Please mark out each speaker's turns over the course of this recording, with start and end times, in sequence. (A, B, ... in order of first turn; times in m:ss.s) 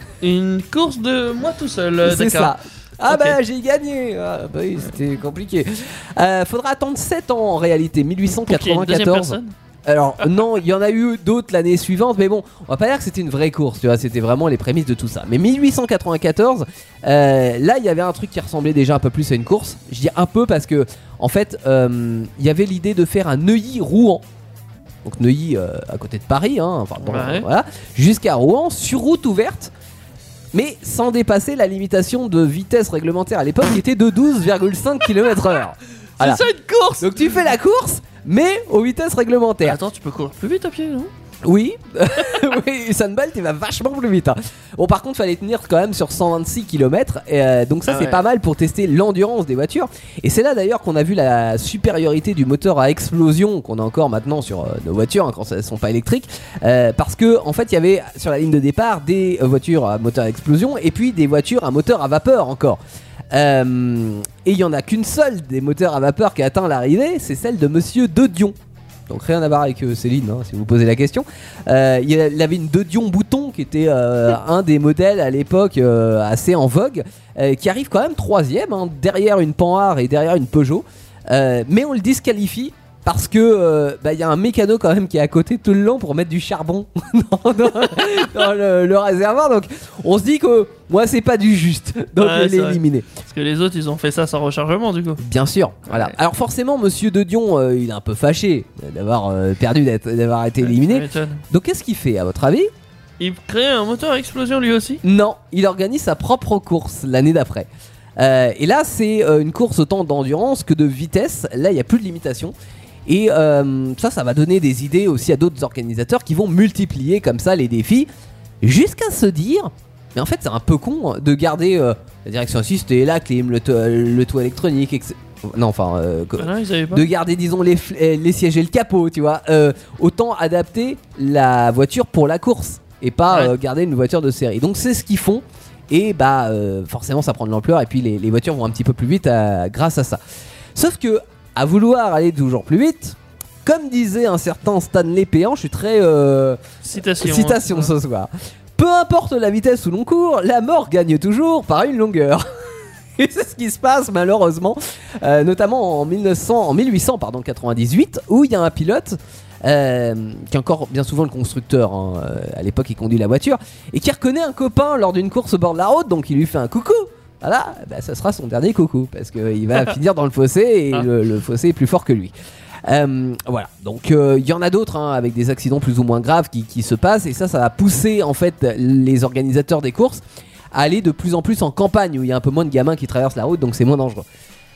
0:00.2-0:02.6 A
0:02.0-0:24.2 B
0:03.1-0:03.4 A
0:08.5-0:09.5 A
0:25.0-0:29.7 B
0:27.0-0:27.5 A
0:30.5-0:36.4 B
0:36.2-0:37.3 A
0:37.0-0:39.8 B
0:39.6-0:41.1 A
0:41.4-1:02.8 B
0:47.9-0:48.2 A
1:03.3-1:08.6 B
1:09.1-1:33.1 B
1:32.2-1:35.2 A
1:35.2-1:42.7 B
1:35.9-1:36.2 A
1:40.6-1:41.4 A
1:43.2-1:45.0 A
1:45.0-1:52.5 B
1:53.1-1:58.1 B
1:58.6-2:20.2 B
2:06.4-2:07.1 A
2:13.3-2:13.5 A
2:20.8-2:26.6 B
2:26.8-2:27.9 A
2:27.2-2:52.3 B
2:52.9-3:00.2 B
3:00.7-3:04.3 B